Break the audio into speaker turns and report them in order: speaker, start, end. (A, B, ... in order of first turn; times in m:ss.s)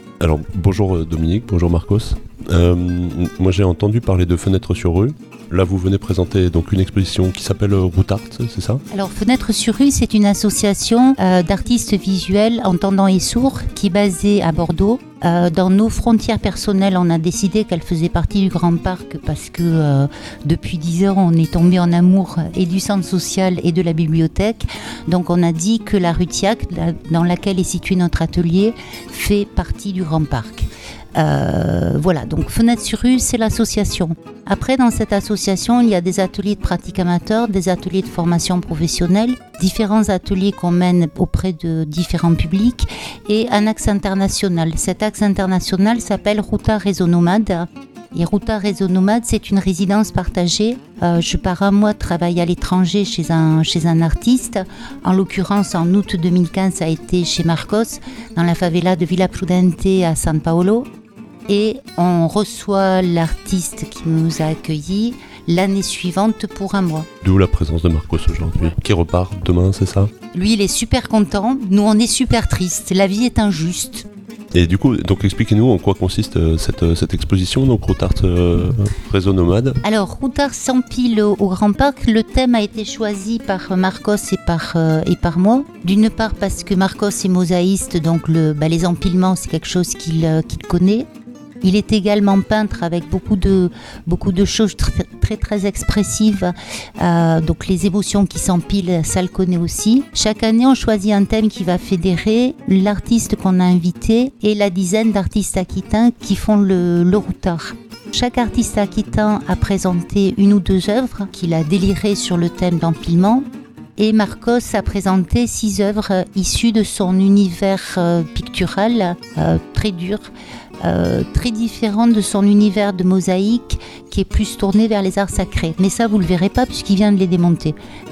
0:00.2-0:08.8 A
0:08.9-1:00.9 B
1:01.5-1:07.1 B
1:07.2-1:10.1 A
1:10.3-1:14.1 B
1:14.5-1:19.8 A
1:19.8-1:31.1 B
1:31.6-1:53.5 B
1:54.0-2:00.3 B
2:00.8-2:07.8 B